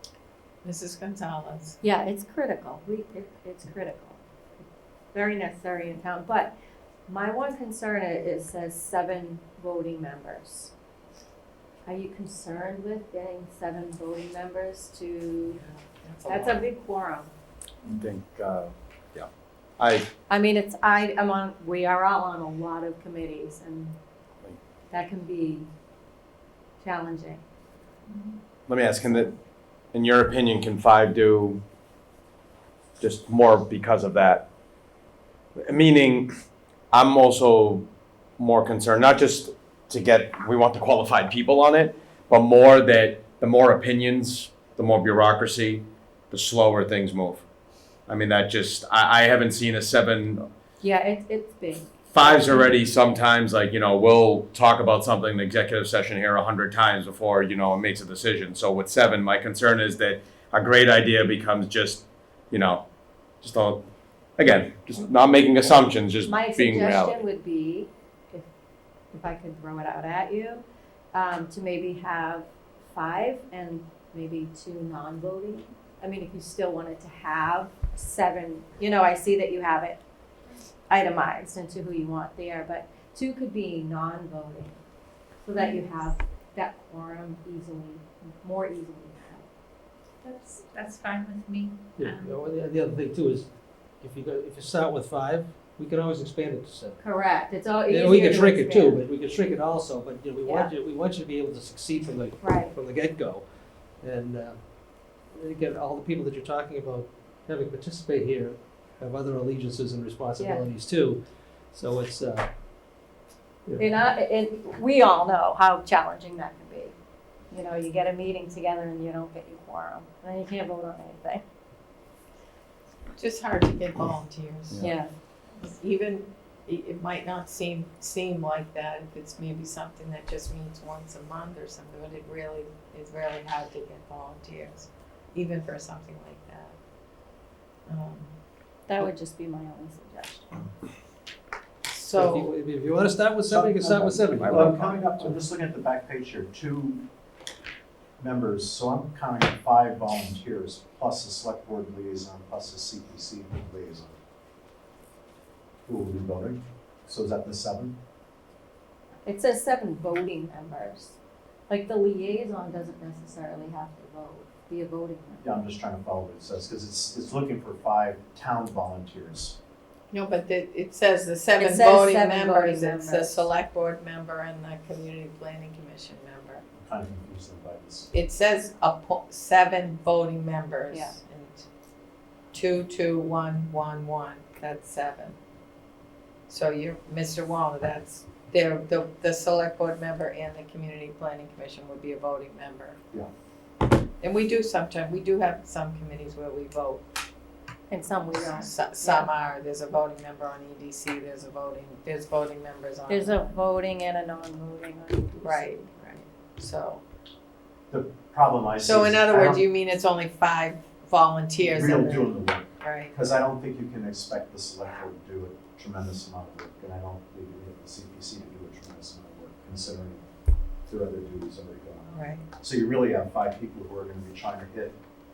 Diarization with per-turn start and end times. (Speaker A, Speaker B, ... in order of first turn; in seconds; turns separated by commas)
Speaker A: 0.6-1.8, Speaker B: 1.8-4.2, Speaker B: 5.1-6.5, Speaker B: 7.1-10.7, Speaker B: 11.8-15.6, Speaker A: 15.5-16.7, Speaker B: 16.3-17.3, Speaker C: 17.8-20.1, Speaker B: 20.3-24.0, Speaker B: 24.9-25.7, Speaker B: 26.8-27.4, Speaker C: 28.7-29.3, Speaker C: 29.9-31.6, Speaker C: 33.0-34.5, Speaker C: 35.6-36.3, Speaker C: 36.9-37.9, Speaker C: 38.4-47.4, Speaker C: 48.1-50.5, Speaker B: 50.8-52.8, Speaker C: 52.1-62.8, Speaker C: 63.4-67.2, Speaker B: 66.2-68.5, Speaker B: 69.1-80.0, Speaker B: 80.9-84.8, Speaker B: 85.4-89.5, Speaker D: 85.5-86.0, Speaker D: 90.2-92.4, Speaker E: 92.0-93.5, Speaker E: 94.0-97.0, Speaker B: 97.0-99.0, Speaker E: 97.9-103.4, Speaker B: 100.4-100.7, Speaker B: 102.4-102.8, Speaker E: 104.0-104.6, Speaker E: 105.3-112.5, Speaker B: 110.4-110.6, Speaker E: 113.7-114.0, Speaker B: 113.8-116.9, Speaker B: 117.5-121.4, Speaker A: 123.1-124.8, Speaker C: 124.7-124.9, Speaker B: 124.8-125.1, Speaker A: 125.6-136.7, Speaker A: 137.9-138.3, Speaker B: 138.9-140.7, Speaker A: 141.9-142.5, Speaker E: 142.1-145.4, Speaker F: 143.5-147.0, Speaker C: 144.4-144.7, Speaker F: 148.2-154.2, Speaker F: 155.8-158.0, Speaker B: 159.2-161.2, Speaker B: 161.7-165.6, Speaker F: 165.4-169.6, Speaker A: 170.1-176.6, Speaker B: 171.6-173.4, Speaker F: 176.7-178.1, Speaker A: 178.1-181.6, Speaker A: 182.5-185.3, Speaker A: 186.5-193.0, Speaker A: 194.2-197.0, Speaker B: 197.9-199.3, Speaker A: 198.4-203.5, Speaker B: 203.1-205.8, Speaker A: 205.4-207.0, Speaker F: 207.9-209.6, Speaker A: 208.8-213.1, Speaker F: 211.6-220.2, Speaker F: 220.9-225.0, Speaker A: 222.1-222.5